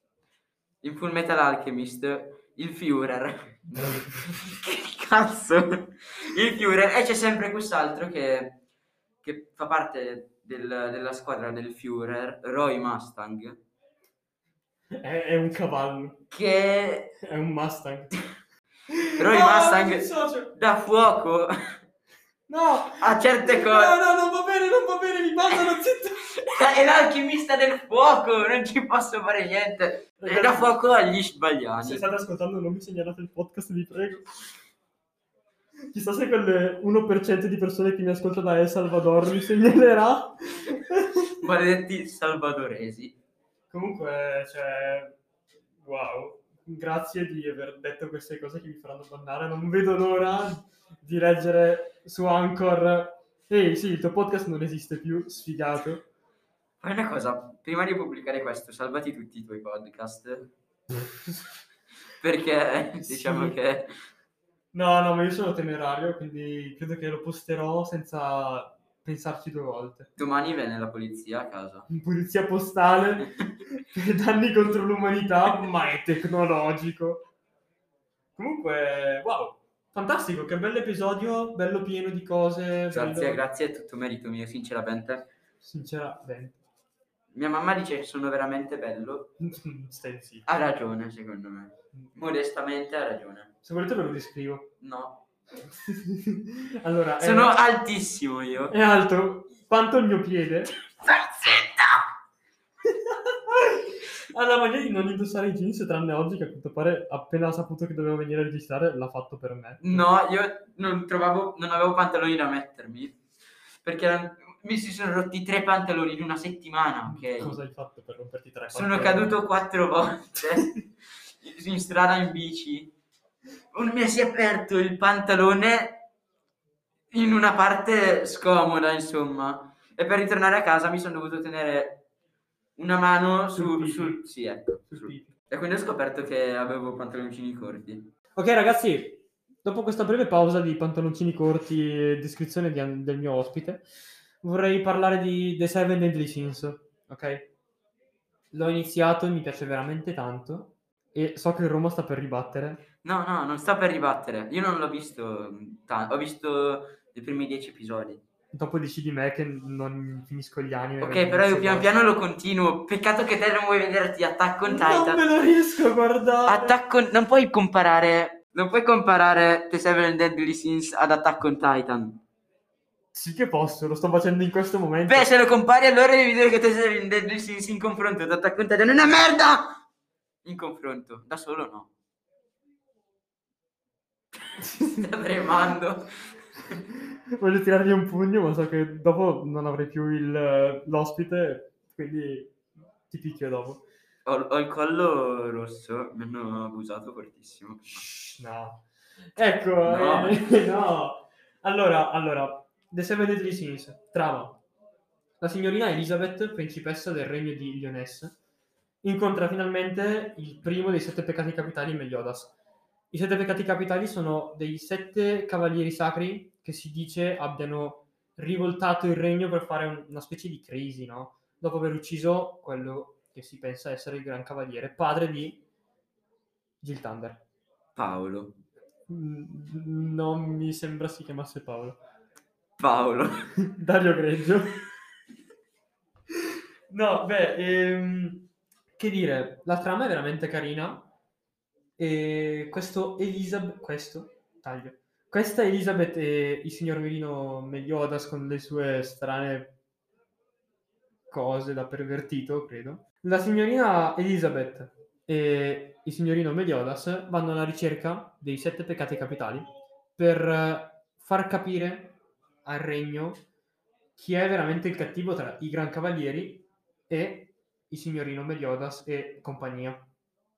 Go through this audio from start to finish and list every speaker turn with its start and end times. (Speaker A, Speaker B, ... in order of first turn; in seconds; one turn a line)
Speaker A: 0.8-8.6
Speaker A: 9.2-13.6
Speaker B: 15.0-16.2
Speaker A: 16.3-17.1
Speaker B: 17.2-18.2
Speaker B: 18.9-20.6
Speaker A: 19.2-21.5
Speaker B: 22.5-26.2
Speaker A: 23.0-23.9
Speaker A: 26.3-32.0
Speaker B: 30.2-30.8
Speaker B: 31.8-34.3
Speaker B: 35.9-41.4
Speaker A: 41.4-43.2
Speaker B: 43.7-45.2
Speaker B: 45.8-56.0
Speaker A: 56.8-60.5
Speaker A: 62.2-63.9
Speaker B: 63.0-63.5
Speaker B: 64.7-70.1
Speaker A: 70.2-71.9
Speaker B: 71.9-77.2
Speaker B: 78.3-83.4
Speaker A: 82.9-85.3
Speaker B: 85.6-86.6
Speaker A: 87.3-89.3
Speaker B: 89.4-90.5
Speaker A: 90.5-93.5
Speaker B: 93.6-94.7
Speaker A: 94.8-95.2
Speaker B: 95.7-97.6
Speaker A: 97.2-98.7
Speaker B: 98.7-100.7
Speaker A: 101.0-102.0
Speaker B: 102.8-110.0
Speaker A: 109.8-113.2
Speaker A: 113.8-117.5
Speaker B: 117.0-119.4
Speaker A: 118.7-122.9
Speaker A: 123.7-126.0
Speaker A: 127.1-132.0
Speaker A: 132.8-138.1
Speaker B: 133.5-134.2
Speaker B: 134.8-135.3
Speaker B: 138.3-143.8
Speaker B: 144.4-147.5
Speaker B: 148.5-152.8
Speaker A: 153.0-158.2
Speaker B: 158.5-162.1
Speaker A: 161.0-165.2
Speaker B: 164.6-166.8
Speaker A: 166.4-172.2
Speaker B: 173.1-175.3
Speaker A: 175.1-179.8
Speaker A: 180.4-181.9
Speaker A: 184.6-186.8
Speaker B: 184.6-185.1
Speaker B: 187.4-192.6
Speaker B: 193.1-193.8
Speaker A: 194.2-198.0
Speaker B: 197.9-198.8
Speaker B: 199.3-204.6
Speaker A: 199.8-200.4
Speaker B: 205.4-208.3
Speaker B: 209.0-212.5
Speaker B: 213.1-225.6
Speaker B: 226.8-227.4
Speaker A: 227.9-228.6
Speaker B: 229.1-232.0
Speaker A: 232.8-233.5
Speaker B: 233.6-234.8
Speaker B: 236.9-241.1
Speaker B: 242.0-249.8
Speaker B: 251.3-263.4
Speaker B: 264.1-270.1